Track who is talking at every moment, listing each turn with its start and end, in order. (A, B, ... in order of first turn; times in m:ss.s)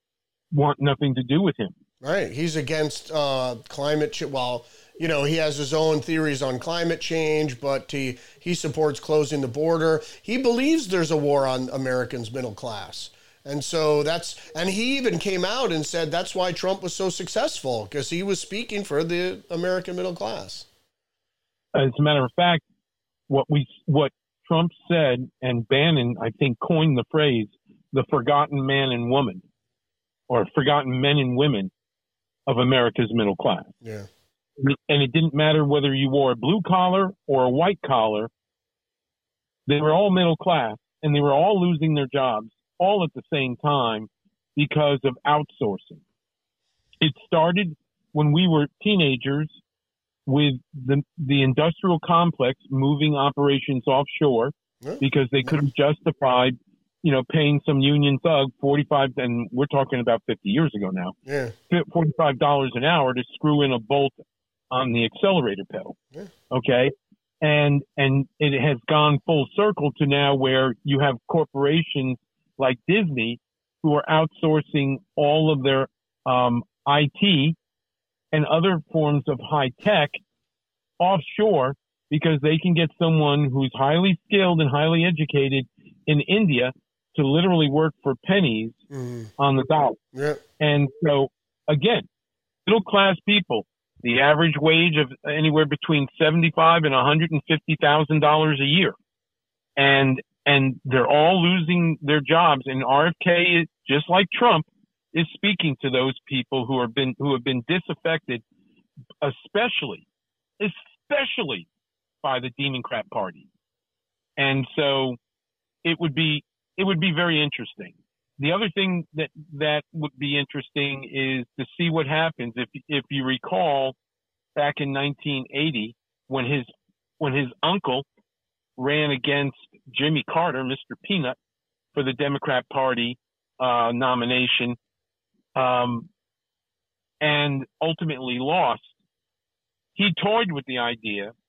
0:00.5-0:01.8 A
0:02.0-0:20.7 B
0:21.7-0:22.6 A
0:23.3-0:29.4 A
0:30.3-0:31.7 A
0:32.5-0:33.7 A
0:34.6-0:38.3 A
0:39.7-0:46.0 A
0:47.0-0:49.6 A
0:50.3-1:01.2 A
0:54.8-0:55.6 B
1:01.3-1:01.6 B
1:01.7-1:04.2 A
1:04.7-1:06.0 A
1:06.5-1:17.6 A
1:18.3-1:20.2 A
1:21.0-1:28.8 A
1:28.9-1:29.3 B
1:29.4-1:30.0 A
1:30.1-1:30.4 B
1:30.6-1:32.1 A
1:32.7-1:39.0 A
1:39.8-1:48.4 A
1:49.2-1:50.1 A
1:50.6-1:51.7 A
1:52.2-1:53.5 A
1:54.4-1:55.2 A
1:55.8-2:04.0 A
2:04.6-2:06.7 A
2:07.2-2:08.1 A
2:08.8-2:11.4 A
2:11.9-2:14.8 A
2:15.6-2:16.1 A
2:17.2-2:18.9 A
2:20.0-2:21.3 A